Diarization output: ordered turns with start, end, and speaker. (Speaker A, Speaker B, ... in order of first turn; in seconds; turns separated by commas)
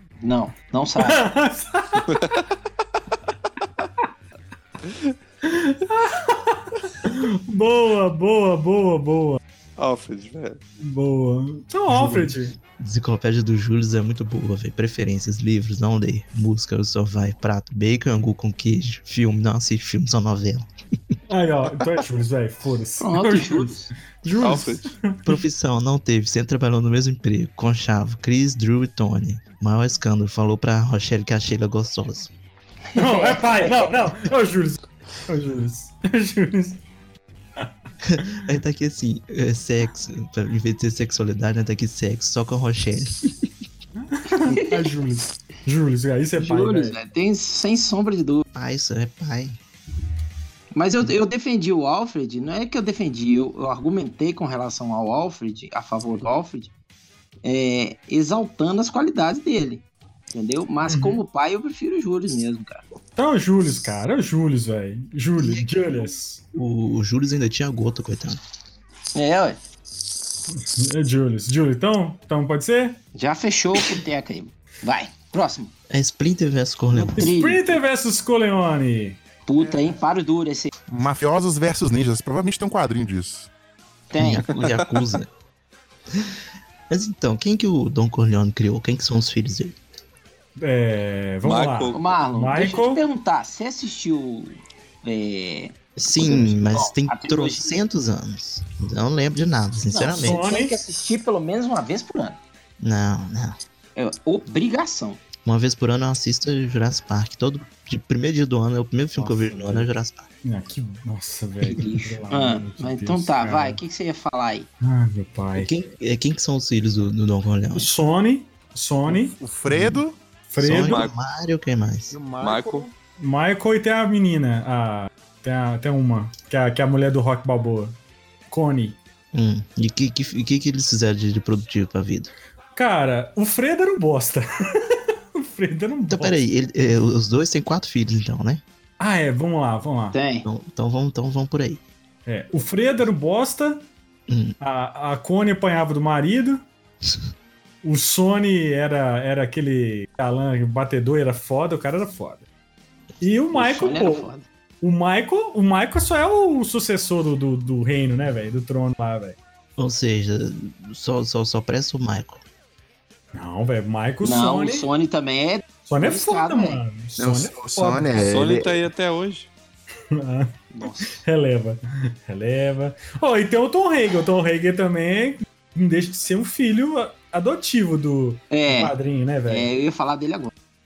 Speaker A: 0.2-1.2, Speaker B: 1.0-2.0, Speaker C: 2.1-2.4, Speaker B: 5.4-9.4, Speaker C: 9.8-10.6, Speaker B: 10.8-12.5, Speaker D: 11.9-20.7, Speaker B: 21.3-25.4, Speaker A: 23.0-23.9, Speaker C: 24.4-24.9, Speaker D: 25.2-32.3, Speaker A: 32.9-33.9, Speaker B: 33.0-36.8, Speaker D: 38.0-43.3, Speaker B: 44.0-47.0, Speaker A: 44.5-44.8, Speaker A: 46.4-48.4, Speaker D: 48.5-49.6, Speaker A: 50.7-56.7, Speaker A: 57.4-62.8, Speaker B: 60.9-61.2, Speaker B: 63.1-66.4, Speaker D: 65.4-66.0, Speaker D: 66.5-68.4, Speaker A: 69.1-69.6, Speaker B: 70.5-73.0, Speaker A: 73.1-75.7, Speaker D: 75.9-77.3, Speaker A: 76.9-77.7, Speaker B: 77.2-79.2, Speaker A: 79.5-80.7, Speaker E: 80.9-83.5, Speaker A: 84.1-84.4, Speaker D: 84.2-85.3, Speaker D: 86.9-89.8, Speaker B: 90.6-93.0, Speaker C: 91.4-92.1, Speaker A: 91.9-97.8, Speaker D: 96.0-100.4, Speaker A: 99.9-102.4, Speaker B: 100.1-100.8, Speaker D: 102.8-103.6, Speaker A: 104.0-105.2, Speaker D: 105.4-110.3, Speaker B: 109.2-109.9, Speaker B: 110.4-113.8, Speaker A: 111.7-114.7, Speaker B: 114.8-115.8, Speaker D: 115.5-117.9, Speaker B: 117.7-119.4, Speaker E: 119.4-120.2, Speaker D: 119.7-120.0, Speaker B: 120.5-121.1, Speaker D: 120.6-122.2, Speaker C: 120.7-121.1, Speaker B: 122.1-128.0, Speaker C: 122.4-122.9, Speaker B: 128.5-129.0, Speaker D: 129.3-132.3, Speaker B: 132.7-136.4, Speaker D: 136.1-138.6, Speaker B: 139.0-140.2, Speaker A: 140.1-140.5, Speaker D: 140.4-141.8, Speaker B: 142.2-143.9, Speaker D: 144.3-144.6, Speaker B: 144.6-146.6, Speaker B: 147.8-152.4, Speaker B: 153.2-154.3, Speaker A: 153.5-154.4, Speaker B: 154.8-159.4, Speaker D: 159.8-162.4, Speaker B: 163.3-164.9, Speaker A: 164.2-166.8, Speaker B: 165.9-168.1, Speaker E: 167.2-168.8, Speaker C: 168.2-169.5, Speaker B: 170.1-170.5, Speaker A: 170.7-171.2, Speaker B: 171.2-179.7, Speaker A: 178.5-178.9, Speaker A: 179.5-180.5